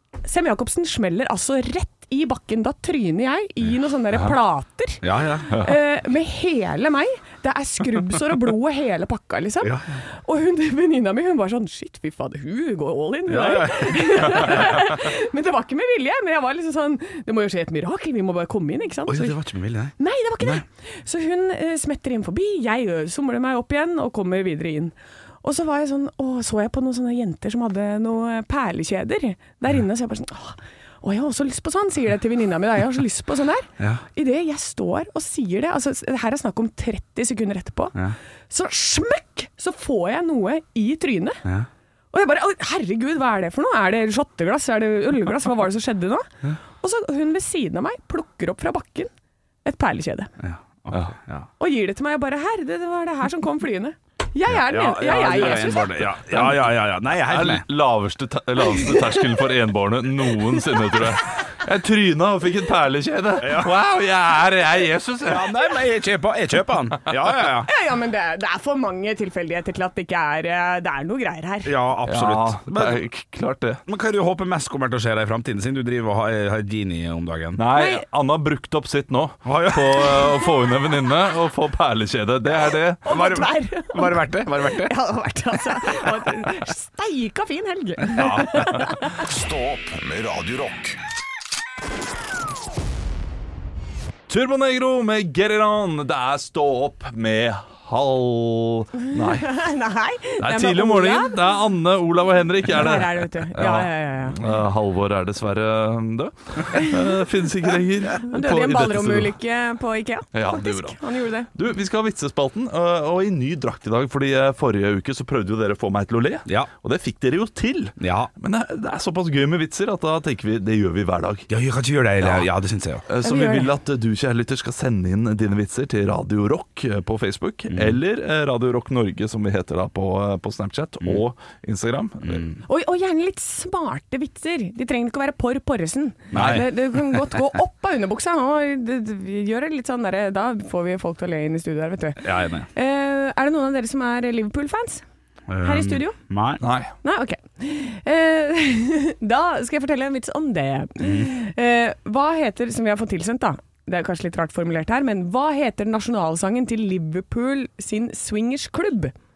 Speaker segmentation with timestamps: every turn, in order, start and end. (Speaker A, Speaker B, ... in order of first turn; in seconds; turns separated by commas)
Speaker A: 0.2-19.4, Speaker B: 5.0-5.5, Speaker B: 9.6-10.0, Speaker B: 13.3-14.8, Speaker B: 19.1-20.6, Speaker A: 20.0-41.4, Speaker A: 42.1-49.1, Speaker A: 49.6-50.3, Speaker B: 50.4-51.5, Speaker A: 51.6-56.1, Speaker B: 54.5-57.6, Speaker C: 56.3-56.6, Speaker C: 57.2-65.5, Speaker A: 58.8-59.1, Speaker B: 63.4-63.8, Speaker B: 65.2-67.7, Speaker A: 67.6-71.7, Speaker B: 71.6-73.0, Speaker C: 72.0-73.8, Speaker B: 73.8-77.6, Speaker C: 77.5-83.0, Speaker A: 77.7-78.0, Speaker B: 79.4-80.3, Speaker A: 83.0-89.1, Speaker B: 83.1-84.9, Speaker B: 88.0-88.7, Speaker D: 88.8-91.0, Speaker C: 94.3-99.5, Speaker A: 99.2-101.4, Speaker C: 100.4-109.3, Speaker A: 102.7-104.4, Speaker A: 108.2-111.5, Speaker C: 110.3-111.0, Speaker C: 111.5-121.5, Speaker B: 118.0-118.3, Speaker B: 121.5-123.0, Speaker C: 122.2-122.5, Speaker C: 123.1-132.4, Speaker A: 123.2-123.7, Speaker B: 127.7-128.0, Speaker B: 132.2-132.6, Speaker A: 132.7-145.0, Speaker B: 136.3-136.7, Speaker C: 136.3-136.6, Speaker B: 142.2-142.7, Speaker B: 145.5-146.6, Speaker A: 145.6-146.2, Speaker C: 146.6-146.9, Speaker A: 147.0-159.1, Speaker B: 151.0-151.3